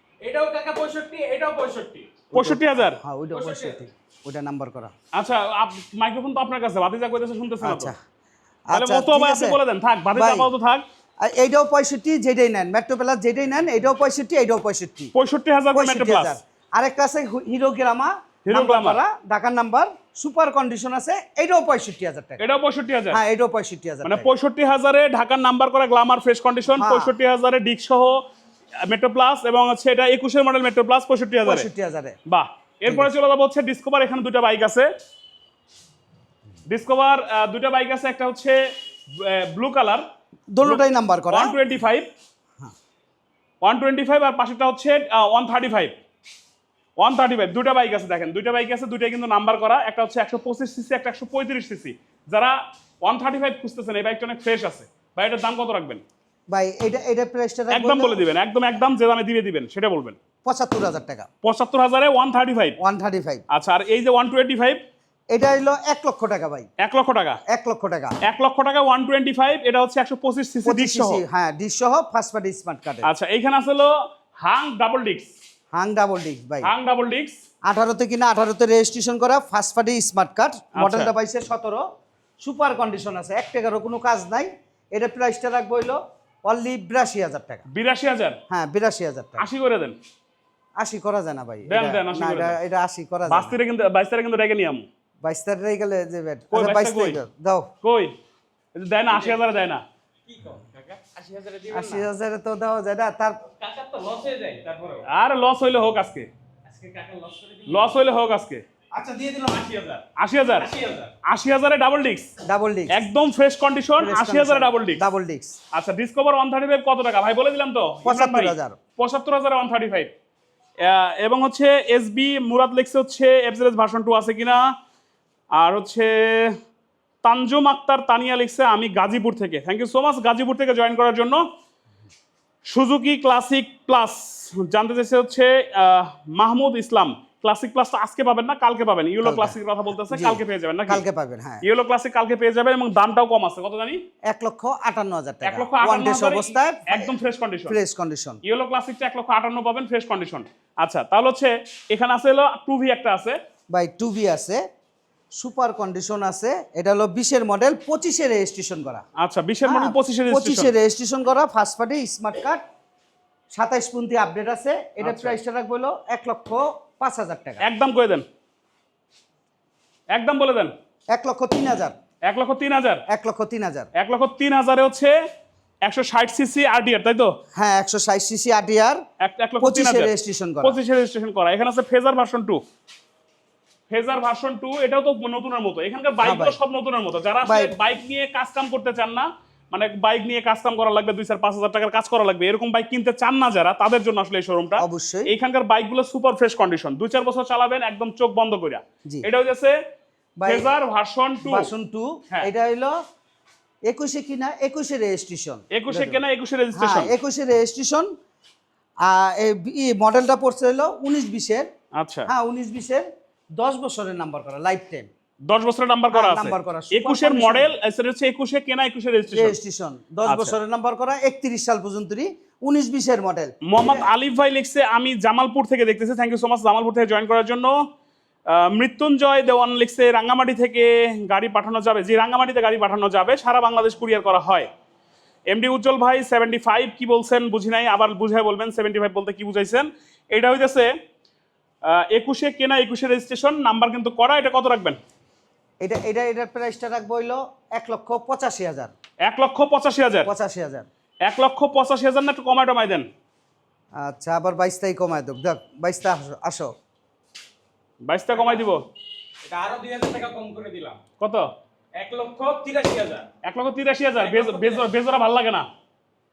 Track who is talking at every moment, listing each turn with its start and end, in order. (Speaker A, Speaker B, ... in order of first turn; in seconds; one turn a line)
Speaker A: 0.2-2.2
Speaker B: 2.3-4.9
Speaker C: 2.3-3.0
Speaker A: 3.3-3.8
Speaker C: 5.1-7.9
Speaker B: 7.6-8.0
Speaker B: 8.7-9.6
Speaker C: 8.7-10.8
Speaker B: 10.1-10.5
Speaker B: 11.2-15.1
Speaker C: 15.1-16.4
Speaker B: 15.7-22.4
Speaker C: 18.4-19.0
Speaker C: 22.4-23.2
Speaker B: 23.1-24.3
Speaker C: 24.0-28.2
Speaker B: 26.7-27.1
Speaker C: 28.9-31.7
Speaker B: 31.4-32.1
Speaker C: 32.3-34.9
Speaker C: 36.7-38.6
Speaker C: 39.1-40.0
Speaker B: 40.5-41.5
Speaker C: 40.6-42.1
Speaker C: 43.6-45.9
Speaker C: 47.0-56.0
Speaker B: 56.5-58.2
Speaker C: 57.7-60.2
Speaker B: 60.4-61.3
Speaker C: 61.4-62.8
Speaker B: 62.8-63.4
Speaker C: 63.5-64.8
Speaker B: 65.3-66.7
Speaker C: 66.8-67.4
Speaker B: 67.5-68.2
Speaker C: 68.2-71.2
Speaker B: 70.6-73.1
Speaker C: 73.0-75.3
Speaker B: 75.7-76.7
Speaker C: 76.6-77.4
Speaker B: 77.7-81.8
Speaker C: 80.8-81.1
Speaker B: 82.4-87.6
Speaker C: 87.7-88.4
Speaker B: 88.5-89.4
Speaker C: 89.4-90.0
Speaker B: 90.8-93.5
Speaker C: 91.7-92.6
Speaker C: 93.3-94.8
Speaker B: 95.2-97.7
Speaker C: 96.5-97.2
Speaker C: 97.8-98.1
Speaker C: 98.8-99.8
Speaker A: 99.1-99.4
Speaker A: 100.3-102.1
Speaker B: 101.7-103.4
Speaker A: 103.6-105.0
Speaker C: 105.1-106.3
Speaker A: 106.7-108.0
Speaker C: 107.7-108.6
Speaker A: 108.9-111.1
Speaker C: 110.2-110.7
Speaker C: 111.3-112.3
Speaker B: 112.5-113.0
Speaker C: 112.9-115.0
Speaker B: 114.0-115.5
Speaker C: 115.7-120.1
Speaker B: 118.0-118.8
Speaker C: 120.8-124.7
Speaker C: 125.5-126.6
Speaker C: 127.2-131.4
Speaker C: 132.7-141.0
Speaker B: 139.2-139.6
Speaker B: 140.1-141.6
Speaker C: 141.6-144.0
Speaker B: 144.3-147.1
Speaker C: 145.4-147.8
Speaker B: 147.7-148.4
Speaker C: 148.4-153.4
Speaker B: 153.7-154.6
Speaker B: 155.4-159.0
Speaker C: 159.2-160.7
Speaker B: 159.7-162.6
Speaker B: 163.5-167.6
Speaker C: 165.0-165.4
Speaker C: 167.6-168.2
Speaker C: 170.1-170.7
Speaker B: 171.1-171.9
Speaker C: 172.2-173.0
Speaker B: 173.1-173.9
Speaker C: 173.9-175.1
Speaker C: 175.8-177.3
Speaker B: 177.5-179.0
Speaker C: 179.2-180.1
Speaker B: 179.6-180.8
Speaker C: 180.6-182.6
Speaker C: 183.9-199.7
Speaker B: 186.2-186.6
Speaker B: 187.4-187.7
Speaker B: 194.8-195.3
Speaker B: 200.4-200.7
Speaker C: 200.4-201.7
Speaker B: 201.4-202.9
Speaker B: 203.9-206.2
Speaker C: 205.7-207.1
Speaker B: 206.7-208.1
Speaker B: 209.0-211.7
Speaker C: 211.9-212.3
Speaker B: 212.3-213.1
Speaker B: 213.6-215.1
Speaker C: 215.4-219.6
Speaker B: 216.1-217.7
Speaker B: 219.3-224.1
Speaker C: 220.3-220.5
Speaker C: 223.7-227.7
Speaker C: 228.5-234.7
Speaker C: 235.5-240.9
Speaker C: 241.9-245.0
Speaker B: 245.8-248.9
Speaker C: 249.2-250.3
Speaker B: 250.2-250.9
Speaker C: 251.2-253.1
Speaker B: 253.9-256.7
Speaker C: 258.0-258.8
Speaker A: 258.3-258.7
Speaker A: 259.4-261.0
Speaker A: 261.9-263.3
Speaker C: 263.4-265.6
Speaker A: 264.2-264.9